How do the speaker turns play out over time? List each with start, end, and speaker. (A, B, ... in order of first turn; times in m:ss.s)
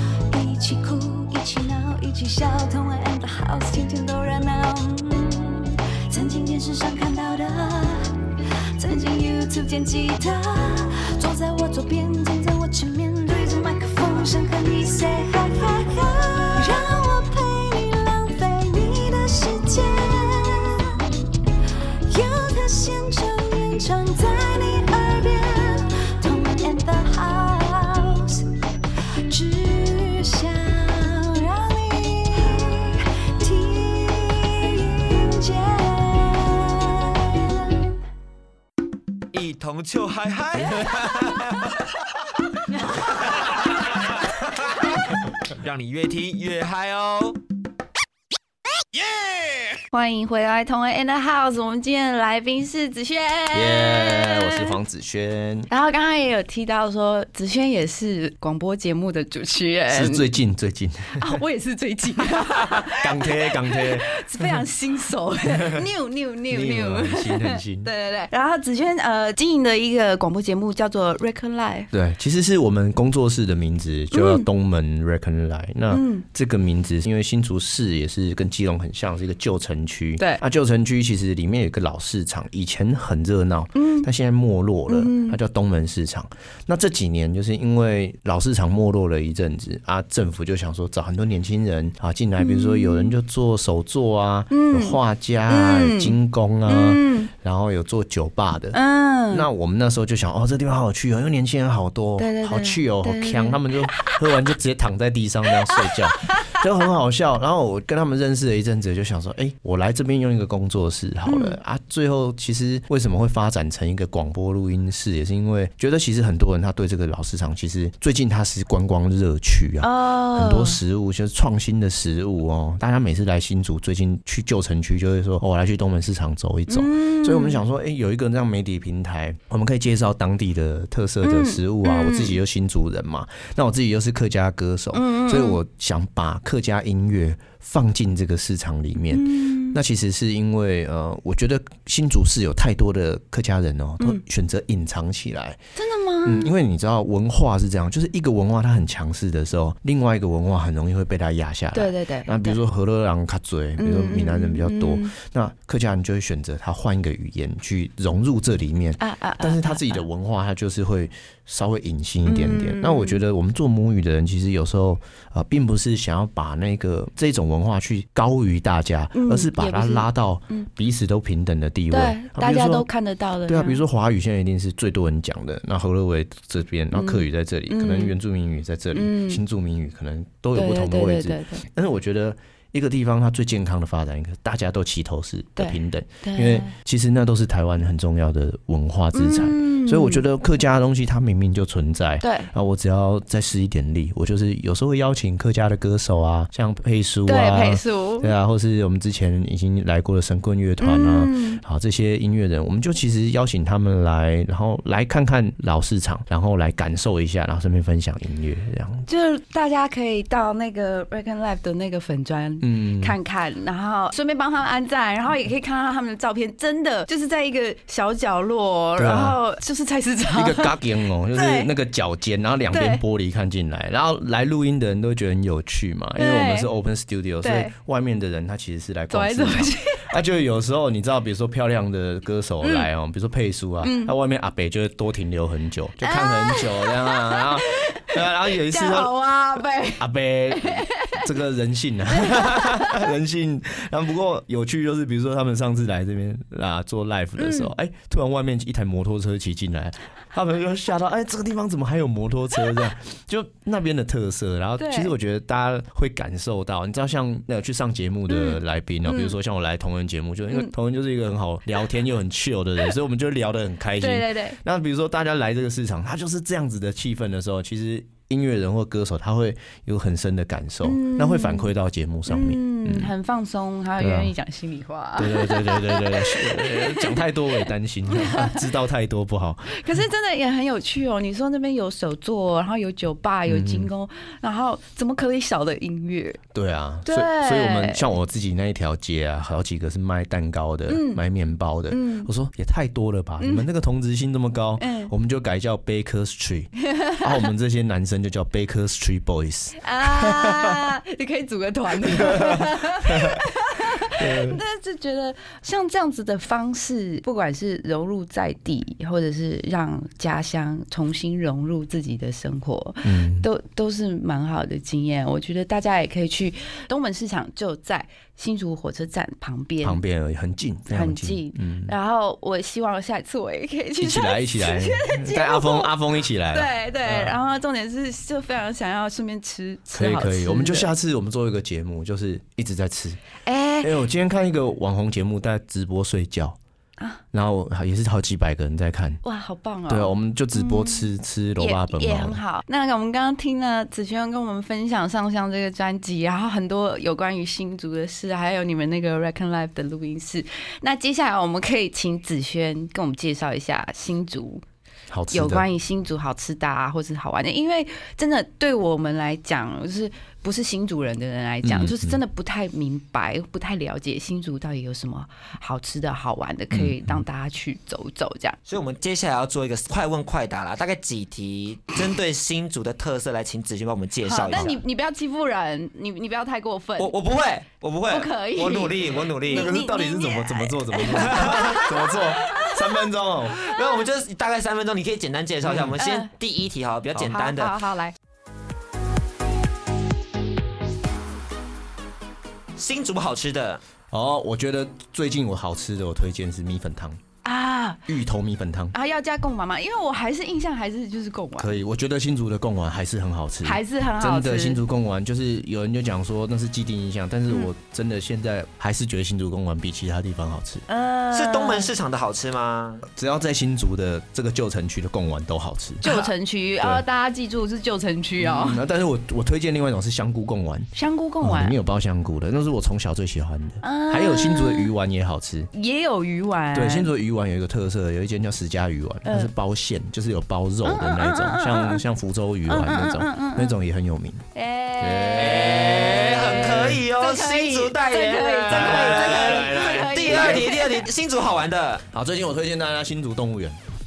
0:00.4-0:04.5 A
0:00.4-0:07.9 B
0:07.2-0:07.5 A
0:08.8-0:10.7 B
0:08.8-0:16.2 A
0:11.3-0:19.7 B
0:16.7-0:20.6 A
0:22.1-0:28.3 A
0:22.5-0:23.3 B
0:23.8-0:25.3 B
0:26.2-0:28.1 B
0:29.3-0:30.1 A
0:29.4-0:30.5 B
0:31.4-0:33.0 B
0:33.5-0:34.4 B
0:35.1-0:36.3 B
0:39.3-0:41.8 C
0:43.3-0:44.1 C
0:45.5-0:47.4 C
0:49.9-0:54.8 B
0:53.5-0:55.7 D
0:55.7-1:00.3 B
0:59.9-1:01.4 D
1:01.1-1:11.9 B
1:02.4-1:04.6 D
1:05.5-1:05.9 D
1:06.5-1:07.9 D
1:11.9-2:25.6 D
1:14.1-1:14.5 B
1:15.9-1:16.2 B
1:23.7-1:24.1 B
1:24.9-1:25.4 B
1:32.4-1:33.2 B
1:34.5-1:36.2 B
1:36.7-1:37.3 B
1:38.7-1:39.5 B
1:42.2-1:44.2 B
1:45.7-1:46.6 B
1:51.3-1:51.6 B
1:59.8-2:00.8 B
2:06.7-2:07.6 B
2:11.2-2:12.4 B
2:14.9-2:15.6 B
2:19.1-2:19.8 B
2:25.8-2:26.5 B
2:26.2-2:52.9 D
2:31.7-2:32.6 B
2:33.8-2:35.1 B
2:39.0-2:40.1 B
2:42.2-2:43.2 B
2:49.1-2:50.7 B
2:51.9-2:53.8 B
2:53.5-3:29.0 D
2:56.9-2:58.2 B
2:58.9-2:59.4 B
3:00.5-3:01.6 B
3:05.6-3:06.7 B
3:09.1-3:10.2 B
3:12.2-3:12.5 B
3:17.3-3:18.3 B
3:20.8-3:21.6 B
3:29.1-3:40.8 B
3:32.6-3:33.2 D
3:39.0-3:39.4 D
3:40.3-3:59.2 D
3:41.3-3:41.7 B
3:42.7-3:43.0 B
3:46.2-3:46.7 B
3:47.4-3:47.7 B
3:49.1-3:50.1 B
3:52.6-3:52.9 B
3:53.8-3:54.1 B
3:56.0-4:01.3 B
4:00.0-4:33.1 D
4:02.2-4:02.9 B
4:07.4-4:07.7 B
4:14.8-4:15.1 B
4:18.3-4:19.4 B
4:24.0-4:24.6 B
4:30.8-4:31.7 B
4:32.3-4:37.3 B
4:34.0-4:34.4 D
4:35.2-4:39.9 D
4:38.1-4:38.6 B
4:39.7-4:46.4 B
4:43.5-4:43.9 D
4:46.5-5:00.4 D
4:47.1-4:48.0 B
4:50.9-4:51.2 B
4:51.9-4:52.3 B
4:53.4-4:53.7 B
4:54.8-4:55.1 B
4:59.8-5:20.0 B
5:02.0-5:03.4 D
5:04.2-5:04.6 D
5:13.0-5:13.5 D
5:19.8-5:22.0 D
5:20.9-5:26.0 B
5:24.0-5:27.4 D
5:26.5-5:30.9 B
5:29.9-5:33.2 D
5:33.4-5:34.0 B
5:33.8-5:36.6 D
5:37.3-5:39.2 D
5:39.2-5:54.6 B
5:39.9-5:42.4 D
5:55.1-5:55.7 D
5:55.3-6:08.6 B
6:01.6-6:02.2 D
6:06.7-6:07.2 D
6:08.7-6:14.8 C
6:14.2-6:17.1 B
6:17.0-6:19.7 C
6:18.1-6:22.8 B
6:19.5-6:23.6 D
6:21.1-6:21.7 C
6:23.6-6:27.8 C
6:25.6-6:26.3 B
6:27.2-6:28.2 B
6:32.8-6:33.8 C
6:34.1-6:37.2 D
6:37.4-6:38.1 B
6:38.1-6:39.0 D
6:38.9-6:41.8 B
6:41.6-6:50.8 D
6:43.6-6:44.8 B
6:50.9-6:51.9 B
6:51.3-6:53.1 C
6:53.1-6:57.0 D
6:56.0-6:58.8 B
6:58.4-7:05.7 D
7:00.9-7:01.8 B
7:03.8-7:04.9 B
7:05.7-7:07.1 B
7:06.7-7:14.4 D
7:09.2-7:09.5 B
7:10.8-7:12.0 B
7:12.7-7:13.7 B
7:14.5-7:16.4 B
7:15.0-7:17.0 D
7:15.4-7:22.0 C
7:17.2-7:21.0 B
7:18.7-7:20.7 D
7:22.1-7:23.8 D